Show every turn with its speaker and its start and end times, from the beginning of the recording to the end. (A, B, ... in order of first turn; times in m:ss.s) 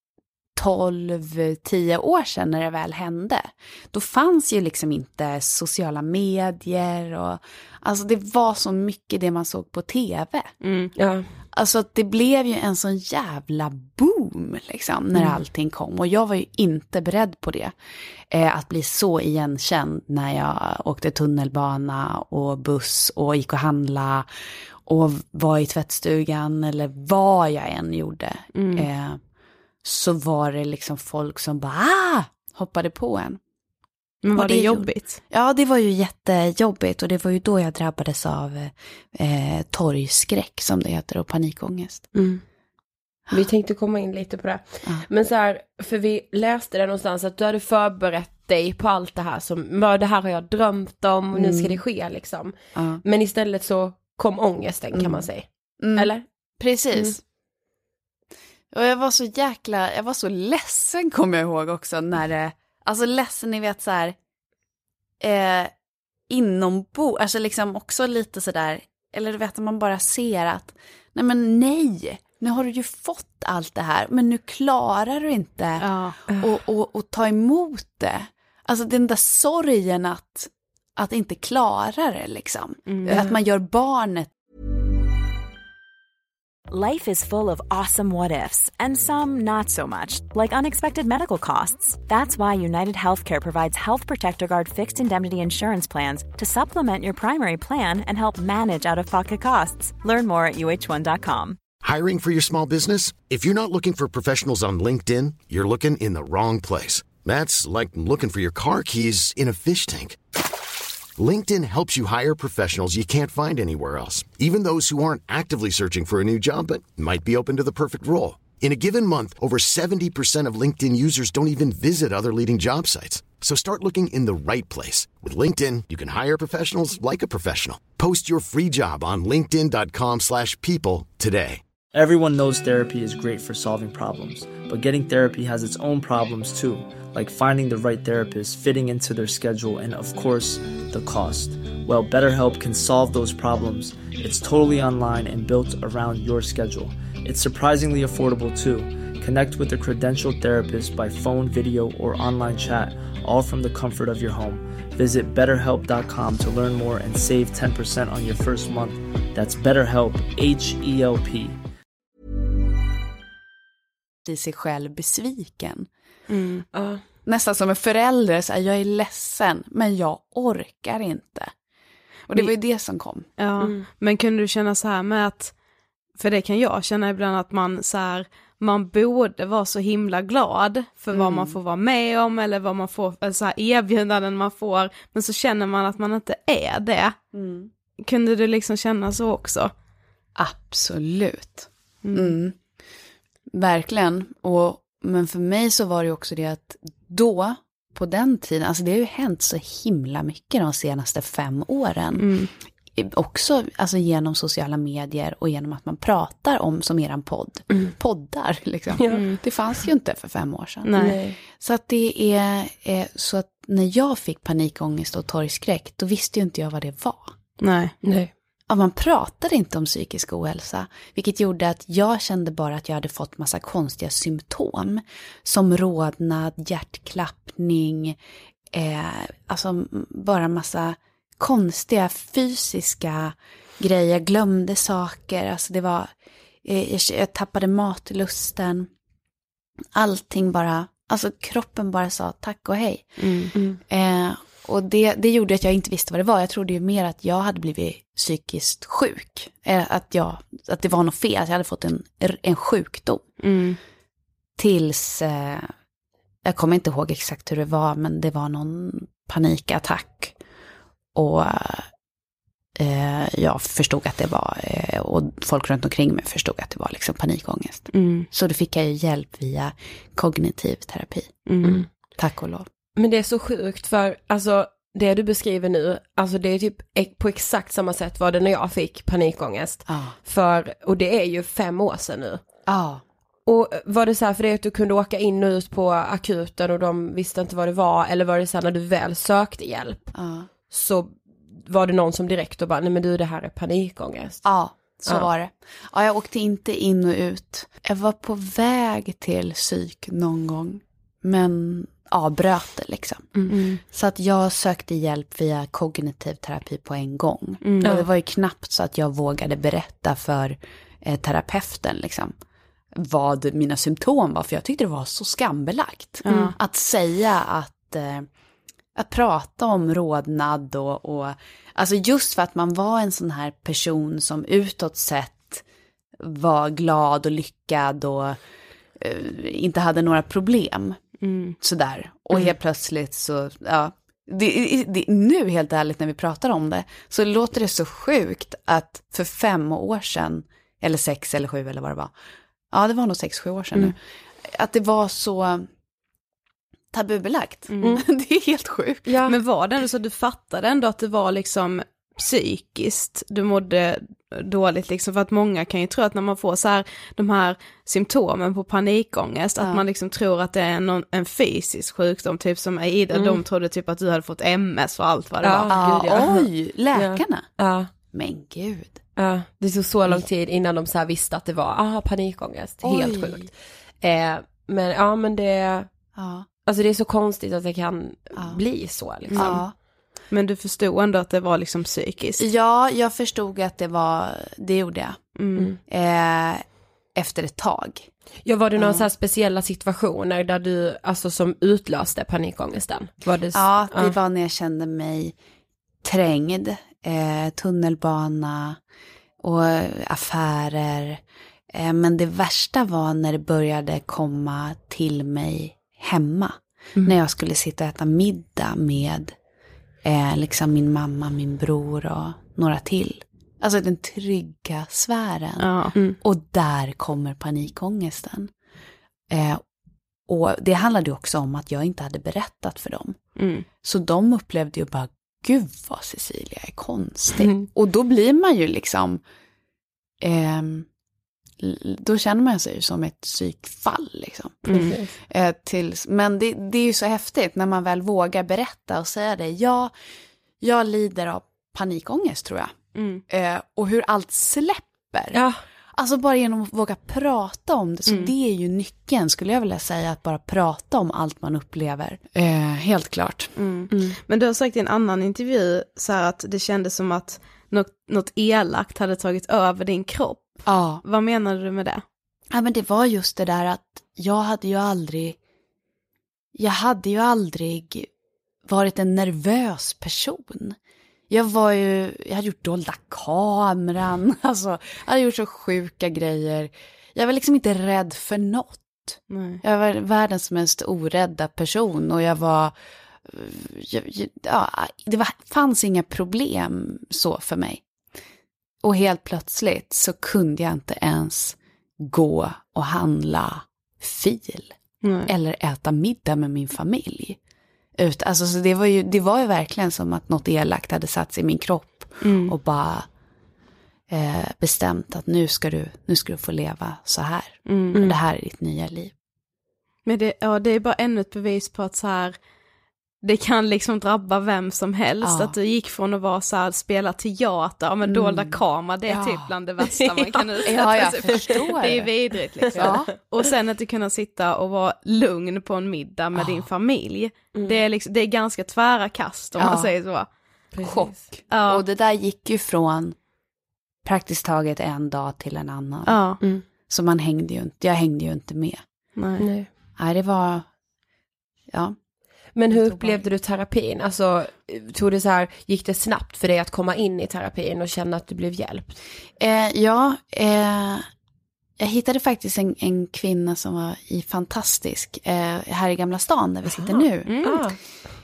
0:00.6-0:10.5 A
0:10.6-0:10.9 B
0:11.0-0:11.3 C
0:11.5-0:17.7 A
0:18.3-0:24.3 A
0:24.8-0:29.2 A
0:28.5-0:28.9 B
0:29.8-0:33.4 A
0:34.2-0:35.2 B
0:34.3-0:42.1 A
0:42.1-0:42.4 C
0:43.3-0:56.2 C
0:51.3-0:51.8 A
0:52.7-0:53.0 A
0:54.9-0:55.3 A
0:55.8-0:57.2 A
0:58.7-1:04.2 A
1:05.2-1:05.7 A
1:06.3-1:24.3 A
1:15.8-1:16.2 B
1:16.3-1:16.5 C
1:22.9-1:23.3 B
1:26.7-1:41.6 D
1:41.8-1:50.2 E
1:51.2-2:11.6 E
2:11.9-2:41.6 F
2:44.2-2:45.9 A
2:46.3-2:46.6 B
2:46.7-2:47.0 C
2:47.2-2:51.5 A
2:52.3-2:53.3 A
2:53.4-2:55.5 B
2:53.6-2:53.9 C
2:56.2-3:07.2 B
3:01.1-3:01.6 A
3:07.3-3:07.7 A
3:08.0-3:09.7 B
3:10.4-3:12.5 A
3:12.0-3:12.4 B
3:13.5-3:22.3 A
3:22.2-3:22.5 B
3:22.9-3:37.3 A
3:29.0-3:29.3 C
3:29.1-3:29.4 B
3:30.8-3:31.2 B
3:31.0-3:31.4 C
3:37.6-3:37.9 B
3:38.0-3:38.3 C
3:38.7-3:48.2 A
3:48.7-3:56.1 A
3:56.6-3:58.9 A
3:59.9-4:03.1 A
4:03.2-4:03.5 B
4:03.5-4:03.8 C
4:03.9-4:13.2 A
4:13.4-4:13.8 B
4:14.6-4:15.7 A
4:16.4-4:20.4 A
4:21.1-4:21.9 A
4:22.8-4:31.3 A
4:27.9-4:28.3 B
4:31.4-4:31.8 B
4:32.2-4:32.7 A
4:33.0-4:42.4 C
4:39.9-4:40.2 A
4:42.7-4:43.0 A
4:43.4-4:50.1 C
4:50.1-4:50.5 A
4:50.7-4:54.4 C
4:54.4-5:12.3 A
5:03.5-5:03.8 B
5:07.6-5:08.0 B
5:12.9-5:18.3 A
5:16.2-5:16.5 B
5:18.9-5:25.6 A
5:26.2-5:28.4 A
5:29.0-5:31.0 A
5:31.2-5:31.6 B
5:31.6-5:42.1 A
5:42.7-5:45.7 A
5:46.9-5:49.1 A
5:47.7-5:48.0 B
5:49.0-5:49.4 C
5:49.3-6:06.2 B
6:03.1-6:03.4 C
6:05.4-6:07.9 C
6:05.7-6:07.6 A
6:08.1-6:09.0 A
6:09.2-6:15.9 C
6:12.8-6:13.5 A
6:16.2-6:16.5 A
6:16.6-6:19.6 C
6:18.4-6:18.6 A
6:19.3-6:19.6 B
6:19.4-6:19.7 A
6:20.3-6:22.4 B
6:22.4-6:25.2 A
6:25.4-6:25.7 B
6:25.9-6:26.6 A
6:27.1-6:28.1 A
6:28.4-6:34.1 C
6:28.8-6:29.1 A
6:33.5-6:35.3 A
6:36.0-6:38.8 A
6:39.4-6:41.2 A
6:41.7-6:49.3 A
6:50.0-6:58.5 A
6:55.6-6:55.9 B
6:59.3-6:59.6 A
7:00.3-7:03.2 A
7:03.4-7:03.6 B
7:03.8-7:09.2 A
7:07.4-7:07.6 C
7:10.2-7:10.9 A
7:11.6-7:14.7 A
7:14.6-7:15.1 C
7:14.7-7:15.0 B
7:15.3-7:19.9 A
7:20.6-7:22.8 A
7:22.9-7:23.2 B
7:23.3-7:25.4 A
7:25.3-7:25.6 C
7:25.9-7:33.5 A
7:28.1-7:28.3 B
7:33.6-7:42.0 B
7:33.9-7:34.2 C
7:40.6-7:41.0 A
7:42.5-7:45.4 A
7:46.6-7:48.1 A
7:48.6-7:50.8 A
7:51.3-8:02.7 A
7:59.3-7:59.6 B
8:03.2-8:07.8 A
8:08.8-8:17.4 A
8:15.0-8:15.3 B
8:18.0-8:23.1 A
8:22.2-8:22.5 B
8:24.1-8:29.1 A
8:27.6-8:28.0 B
8:30.0-8:32.4 B
8:33.2-8:50.3 B
8:35.2-8:35.5 A
8:38.0-8:39.5 A
8:39.8-8:41.9 C
8:40.6-8:42.1 A
8:42.7-8:43.2 C
8:42.7-8:43.1 A
8:47.5-8:47.8 C
8:49.6-8:49.9 A
8:50.7-8:51.3 C
8:50.8-8:53.2 A
8:51.5-8:51.8 B
8:54.0-8:56.2 A
8:56.0-8:56.4 B
8:56.9-8:58.8 A
8:59.2-8:59.5 B
8:59.4-8:59.7 C
9:00.0-9:00.7 A
9:01.7-9:02.0 A
9:02.5-9:09.0 C
9:02.7-9:03.2 A
9:09.4-9:11.0 A
9:11.8-9:17.5 A
9:16.7-9:17.8 C
9:17.2-9:17.6 B